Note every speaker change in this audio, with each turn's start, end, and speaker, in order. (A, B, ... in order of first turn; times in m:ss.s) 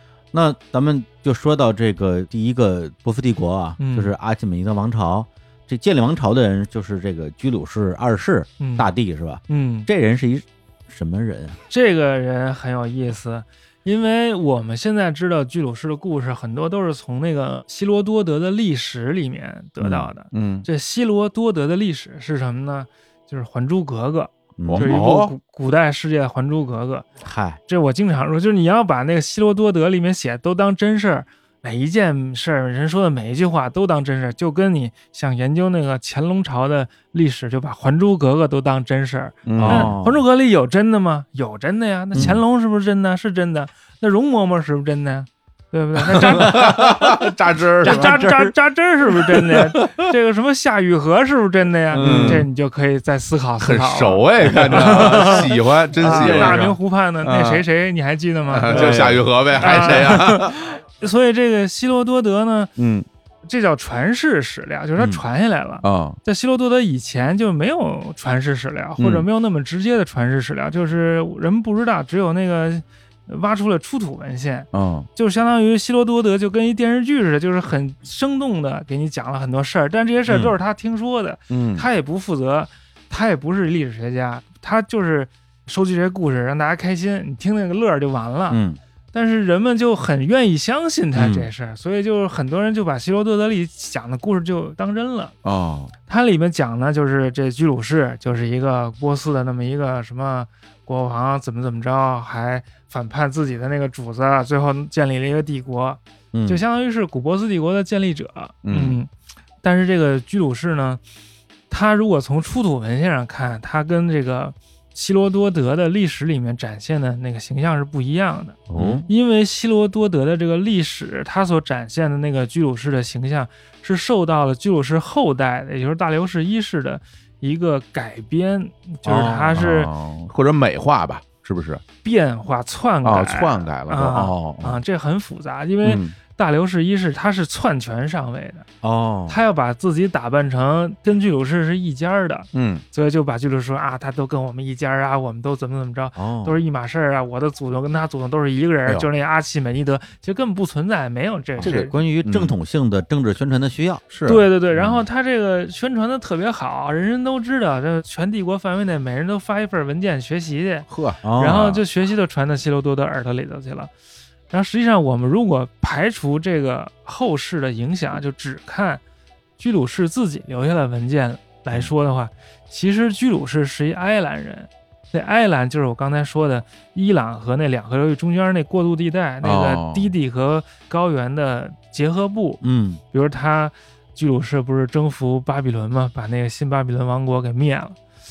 0:00.3-0:11.6 A
0:03.8-0:04.1 B
0:08.6-0:08.9 B
0:09.5-0:09.9 B
0:11.7-0:27.1 B
0:19.8-0:20.1 A
0:20.3-0:20.7 C
0:24.6-0:25.2 A
0:24.7-0:25.3 C
0:27.2-0:27.6 A
0:27.7-0:47.0 B
0:39.5-0:39.9 C
0:39.6-0:40.2 A
0:42.1-0:42.4 A
0:46.2-0:48.2 C
0:46.3-0:47.3 A
0:47.8-0:48.5 A
0:47.8-1:02.7 B
0:49.5-0:50.0 C
0:51.9-0:52.5 A
0:52.0-0:52.5 C
0:53.6-0:57.7 C
0:54.5-0:56.7 A
0:58.5-1:00.6 C
0:58.7-0:59.3 A
1:02.8-1:03.1 C
1:03.5-1:28.6 B
1:05.8-1:06.2 C
1:09.0-1:09.3 C
1:14.7-1:15.1 C
1:21.5-1:21.9 C
1:28.5-1:28.8 A
1:29.1-1:35.3 B
1:31.2-1:31.5 A
1:35.4-1:35.9 C
1:36.1-1:49.1 B
1:46.3-1:46.6 A
1:48.6-1:49.0 C
1:49.6-1:51.0 B
1:51.7-2:09.9 B
1:58.7-1:59.0 C
1:58.7-1:59.1 A
2:09.0-2:09.6 A
2:09.6-2:11.8 C
2:12.0-2:18.7 B
2:13.0-2:14.8 C
2:15.8-2:16.1 C
2:18.8-2:19.4 A
2:19.3-2:32.0 B
2:22.5-2:22.8 C
2:26.2-2:26.6 A
2:31.6-2:34.0 A
2:31.6-2:32.5 C
2:34.1-2:34.5 C
2:34.3-2:43.9 B
2:40.9-2:41.7 C
2:41.2-2:41.8 A
2:44.5-2:49.0 B
2:49.6-3:02.6 B
2:59.4-3:00.1 C
3:02.6-3:03.0 A
3:03.1-3:08.0 B